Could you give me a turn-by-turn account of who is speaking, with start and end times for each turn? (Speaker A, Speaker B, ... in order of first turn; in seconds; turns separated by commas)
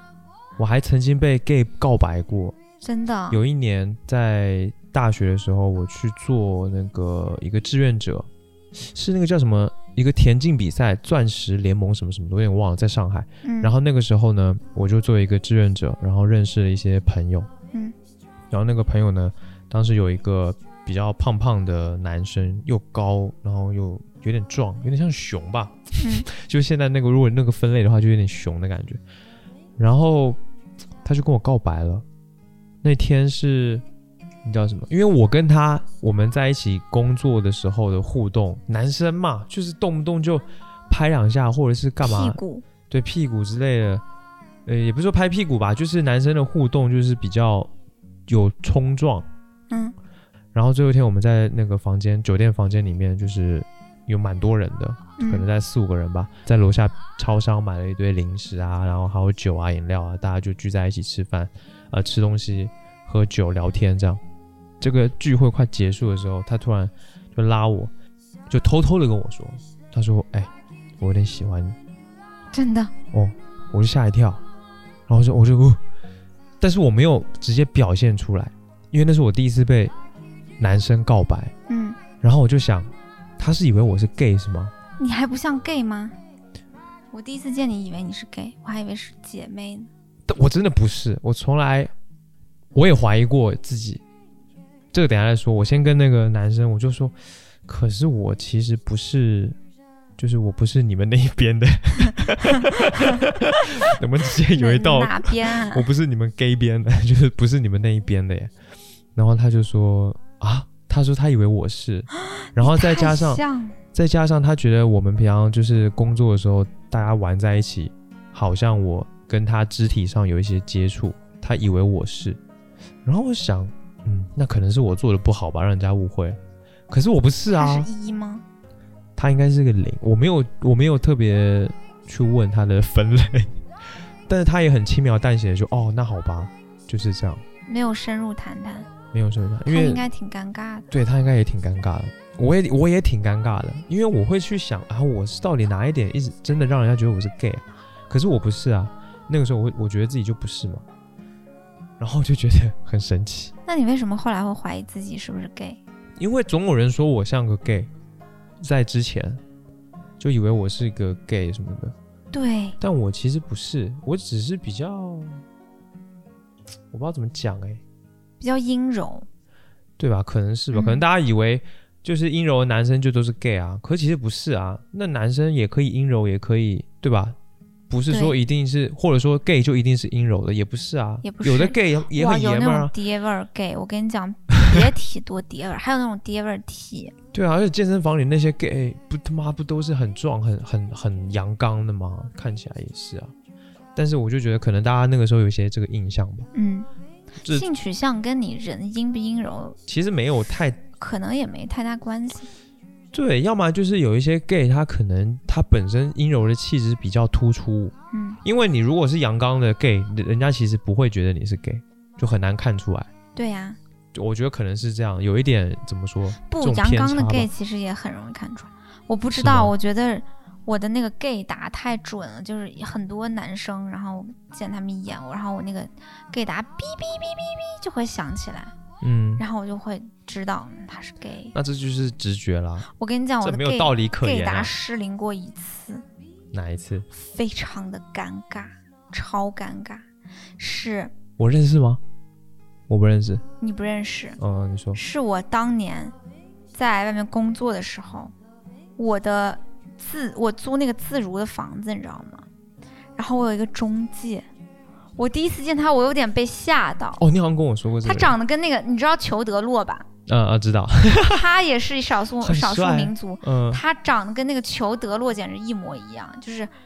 Speaker A: 0.6-2.6, Speaker B: 2.8-3.4, Speaker A: 3.3-17.5, Speaker B: 13.4-13.8, Speaker A: 18.5-29.0, Speaker B: 26.0-26.3, Speaker A: 29.8-30.4, Speaker A: 31.0-32.0, Speaker A: 32.8-33.8, Speaker A: 34.4-42.4, Speaker B: 42.0-42.6, Speaker A: 42.9-44.0, Speaker A: 44.6-47.7, Speaker A: 48.3-49.3, Speaker B: 49.7-49.9, Speaker A: 50.5-64.2, Speaker B: 55.2-55.5, Speaker A: 64.8-67.9, Speaker A: 68.5-71.8, Speaker B: 72.5-72.9, Speaker A: 73.1-74.4, Speaker A: 75.1-75.8, Speaker A: 76.6-79.9, Speaker A: 80.6-81.5, Speaker B: 81.7-82.0, Speaker A: 82.2-84.7, Speaker B: 85.0-86.2, Speaker B: 87.1-89.9, Speaker A: 90.3-91.9, Speaker A: 92.7-94.0, Speaker A: 94.9-97.1, Speaker A: 97.7-99.6, Speaker A: 100.2-108.5, Speaker B: 104.5-105.9, Speaker A: 109.1-113.4, Speaker B: 112.3-113.8, Speaker A: 113.9-122.4, Speaker A: 123.0-126.4, Speaker A: 126.9-127.9, Speaker B: 127.5-128.4, Speaker A: 129.2-133.6, Speaker A: 134.3-137.4, Speaker B: 137.7-138.9, Speaker A: 139.1-140.0, Speaker B: 139.7-140.9, Speaker A: 140.9-150.8, Speaker A: 152.0-153.5, Speaker B: 153.7-155.8, Speaker A: 156.2-157.9, Speaker A: 158.6-159.4, Speaker A: 160.2-161.9, Speaker B: 162.3-162.8, Speaker A: 162.8-165.4, Speaker A: 166.9-167.8, Speaker B: 168.4-169.2, Speaker A: 170.0-177.4, Speaker B: 170.7-171.0, Speaker A: 177.9-182.9, Speaker B: 178.1-178.3, Speaker B: 181.2-187.1, Speaker A: 187.3-193.3, Speaker A: 193.9-196.5, Speaker B: 196.5-196.9, Speaker A: 197.4-197.7, Speaker B: 197.5-199.8, Speaker A: 199.9-200.8, Speaker B: 201.0-202.5, Speaker A: 203.1-213.1, Speaker B: 208.1-208.4, Speaker B: 213.3-213.8, Speaker A: 214.1-217.5, Speaker B: 216.5-228.7, Speaker A: 219.3-219.7, Speaker A: 229.0-229.4, Speaker B: 229.4-231.6, Speaker A: 231.5-232.9, Speaker B: 232.9-236.0, Speaker A: 233.4-234.7, Speaker A: 236.5-237.1, Speaker B: 237.1-240.0, Speaker B: 240.6-241.1, Speaker A: 241.4-242.0, Speaker A: 242.9-243.4, Speaker B: 243.6-244.4, Speaker A: 244.4-245.0, Speaker B: 244.9-246.1, Speaker B: 246.7-248.3, Speaker B: 249.0-252.4, Speaker B: 253.2-254.4, Speaker B: 255.2-257.2, Speaker A: 257.2-258.3, Speaker B: 258.0-260.1, Speaker A: 260.3-261.4, Speaker B: 261.2-266.7, Speaker A: 262.4-263.8